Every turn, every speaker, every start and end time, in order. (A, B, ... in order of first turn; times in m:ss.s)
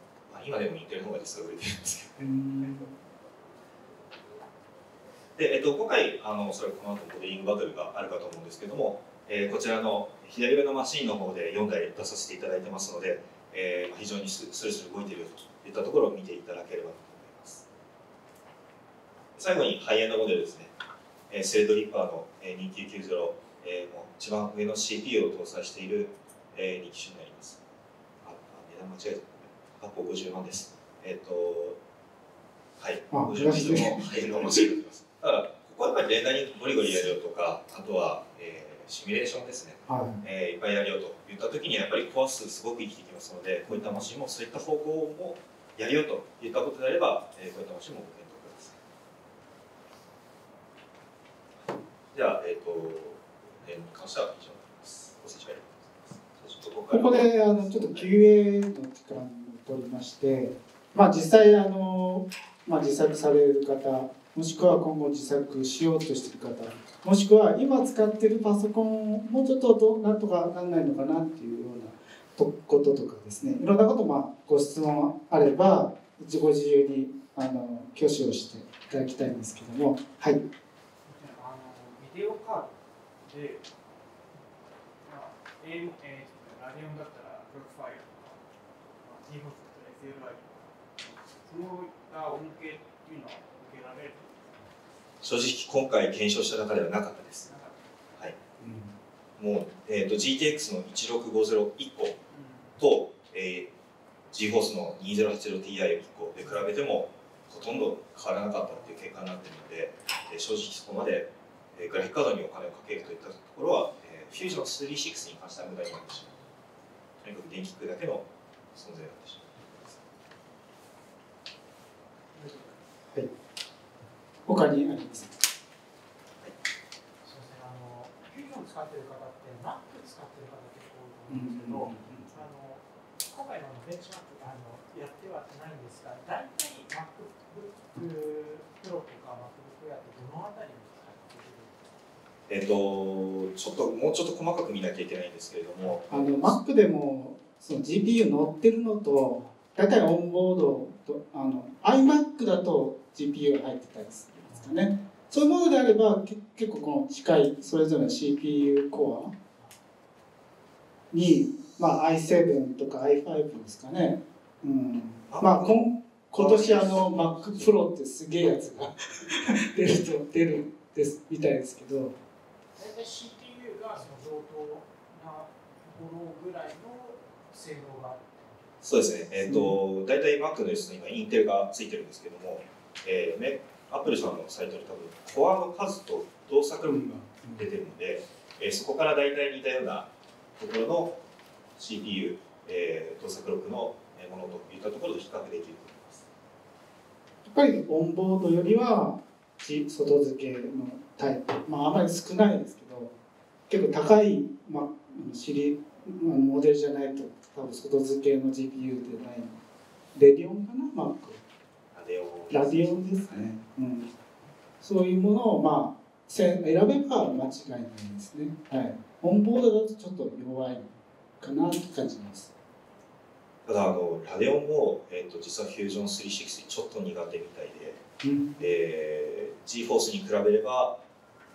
0:00.3-0:02.2 A
0:02.2-0:02.9 B
0:05.4-0:17.7 A
0:19.4-0:20.7 A
0:21.3-0:27.6 A
0:28.2-0:31.8 A
0:32.8-0:48.8 A
0:33.1-0:34.7 B
0:39.9-0:40.2 B
0:43.7-0:44.0 B
0:52.1-0:58.1 A
0:56.9-1:20.4 B
1:21.0-1:22.7 C
1:23.2-1:23.6 C
1:25.0-1:28.4 C
1:29.0-1:30.7 C
1:31.3-1:34.7 C
1:35.2-1:37.5 A
1:37.4-1:37.9 C
1:38.6-1:38.9 B
1:39.4-1:42.2 A
1:42.3-1:42.8 C
1:42.8-1:43.7 A
1:44.3-1:56.4 A
1:48.6-1:49.1 C
1:57.2-1:59.9 A
2:02.4-2:02.7 C
2:04.5-2:05.4 B
2:07.2-2:21.8 C
2:11.3-2:12.3 B
2:22.5-2:26.6 A
2:25.8-2:26.1 C
2:26.1-2:39.3 B
2:29.3-2:29.5 C
2:34.4-2:34.8 C
2:41.1-2:52.1 B
2:45.3-2:45.8 A
2:46.3-2:47.6 A
2:52.8-2:58.7 C
2:58.8-3:11.2 A
2:59.4-2:59.8 B
3:06.9-3:07.6 B
3:11.8-3:16.2 A
3:17.5-3:23.1 B
3:23.7-3:29.6 B
3:30.1-3:31.4 B
3:31.9-3:33.5 A
3:32.5-3:34.1 B
3:34.8-3:42.5 B
3:43.6-3:48.0 A
3:48.2-3:48.6 B
3:48.6-3:51.0 A